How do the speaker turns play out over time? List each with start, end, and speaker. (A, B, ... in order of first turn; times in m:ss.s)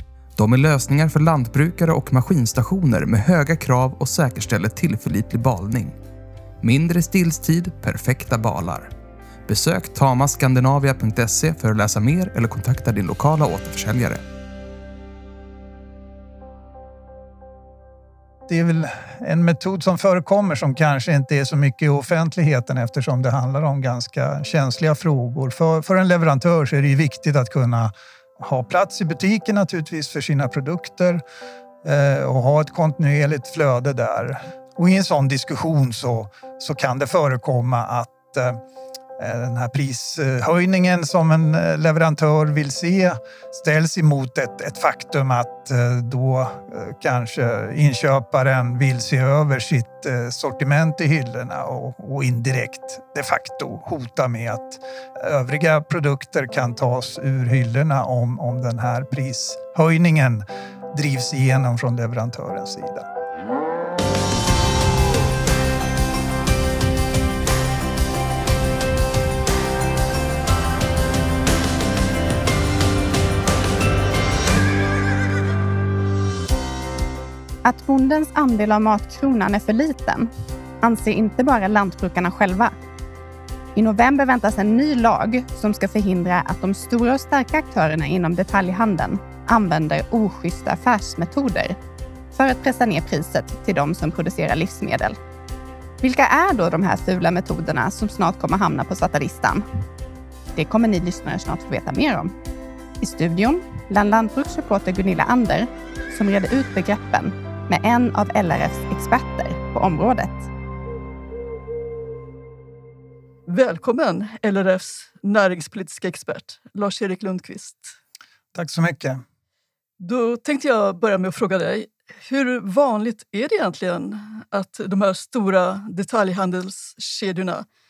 0:00.4-0:06.0 A
0:06.6-0:08.9 A
0:09.5-0:14.2 A
0:18.5-0:31.2 B
0:31.8-0:38.6 B
0:39.2-1:03.1 B
1:17.6-1:20.3 C
1:20.8-1:22.7 C
1:23.8-1:31.8 C
1:32.3-1:35.2 C
1:36.0-1:39.6 C
1:40.6-1:42.3 C
1:43.0-1:50.5 C
1:53.5-1:58.0 D
1:58.5-1:59.2 B
2:00.0-2:07.7 D